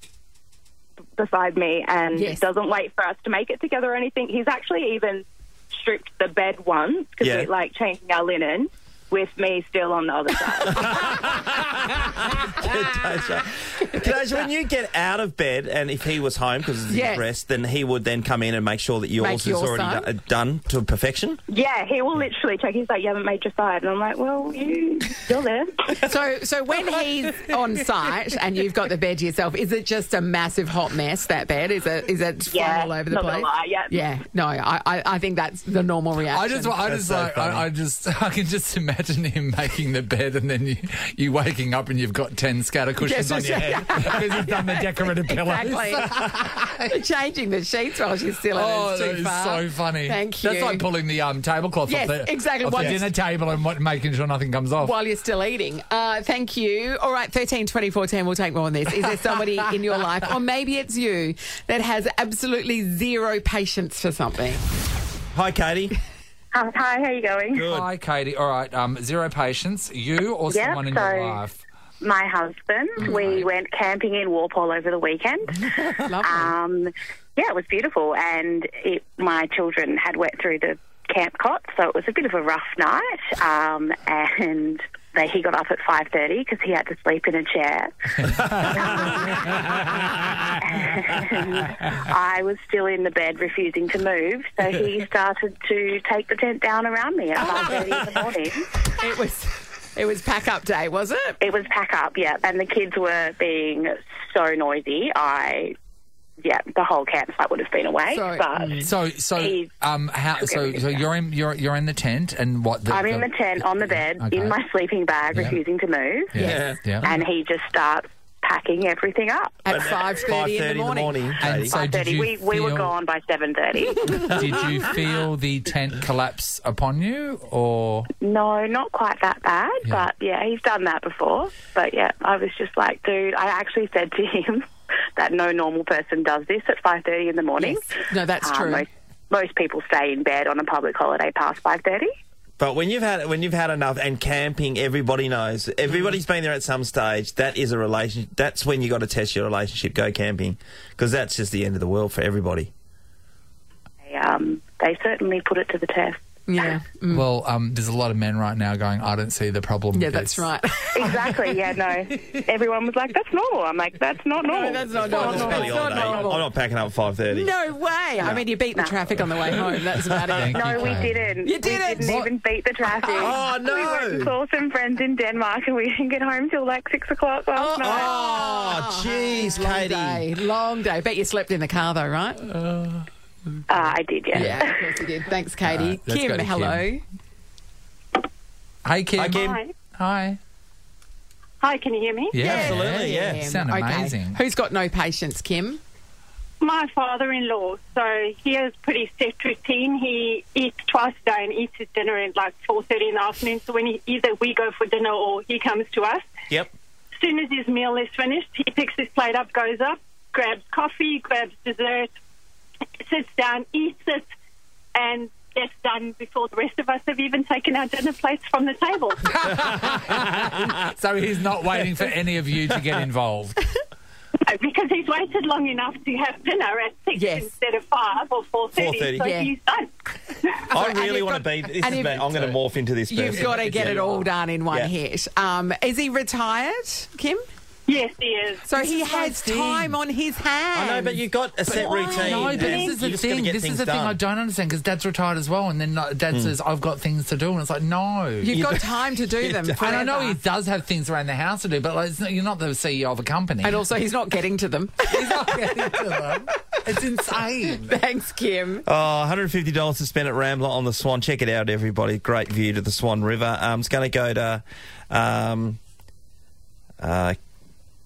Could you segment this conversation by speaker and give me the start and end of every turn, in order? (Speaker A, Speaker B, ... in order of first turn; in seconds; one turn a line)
Speaker A: 1.2-11.2
Speaker B: 2.1-2.5
Speaker C: 7.2-7.5
Speaker C: 10.7-21.4
Speaker B: 16.9-17.2
Speaker B: 19.2-20.1
Speaker A: 21.5-25.9
Speaker B: 26.0-36.8
Speaker A: 32.5-34.1
Speaker D: 36.3-46.9
Speaker C: 36.9-37.7
Speaker B: 43.0-46.1
Speaker B: 46.9-50.9
Speaker D: 48.5-54.9
Speaker B: 51.9-53.0
Speaker B: 54.8-64.6
Speaker C: 65.3-66.0
Speaker E: 66.5-67.7
Speaker C: 67.5-67.9
Speaker D: 67.6-71.6
Speaker E: 70.5-71.4
Speaker E: 72.0-89.4
Speaker D: 73.0-73.5
Speaker B: 76.0-76.5
Speaker E: 90.6-98.7
Speaker B: 99.0-101.4
Speaker E: 101.4-105.8
Speaker E: 106.4-109.7
Speaker B: 108.1-108.9
Speaker D: 108.8-114.6
Speaker E: 110.4-111.0
Speaker E: 112.9-119.6
Speaker D: 115.3-115.6
Speaker D: 116.3-117.2
Speaker C: 116.4-117.0
Speaker B: 119.7-121.3
Speaker C: 119.7-121.7
Speaker D: 121.4-122.9
Speaker E: 121.7-124.4
Speaker D: 124.2-128.1
Speaker E: 128.2-137.8
Speaker B: 137.6-138.9
Speaker E: 138.4-142.1
Speaker C: 142.6-152.7
Speaker E: 154.1-156.2
Speaker B: 156.5-157.2
Speaker D: 157.1-160.5
Speaker B: 159.9-161.1
Speaker E: 160.9-165.9
Speaker B: 164.4-166.5
Speaker C: 164.9-167.6
Speaker B: 167.3-172.2
Speaker D: 170.3-171.2
Speaker E: 170.5-178.1
Speaker C: 173.1-174.3
Speaker C: 177.6-180.3
Speaker B: 177.6-182.5
Speaker D: 182.6-183.0
Speaker E: 183.7-184.8
Speaker B: 184.3-187.0
Speaker D: 185.7-186.9
Speaker D: 188.8-190.4
Speaker C: 189.2-189.6
Speaker F: 189.3-189.7
Speaker F: 191.6-192.4
Speaker D: 192.3-194.4
Speaker C: 192.4-193.5
Speaker B: 192.4-195.8
Speaker F: 196.6-206.3
Speaker F: 207.2-212.1
Speaker F: 213.0-214.3
Speaker F: 214.9-219.3
Speaker D: 219.3-223.6
Speaker F: 224.5-230.6
Speaker B: 227.1-227.5
Speaker C: 228.8-229.3
Speaker B: 229.2-229.5
Speaker C: 230.7-234.1
Speaker B: 230.7-232.3
Speaker B: 233.1-237.4
Speaker D: 233.3-234.2
Speaker F: 237.9-239.4
Speaker B: 238.7-242.8
Speaker D: 239.3-240.0
Speaker C: 240.8-244.2
Speaker D: 241.8-248.6
Speaker B: 248.4-250.4
Speaker C: 248.5-250.1
Speaker D: 249.8-253.8
Speaker B: 253.6-256.0
Speaker D: 255.1-258.0
Speaker B: 257.7-258.9
Speaker C: 258.9-265.8
Speaker C: 267.0-267.4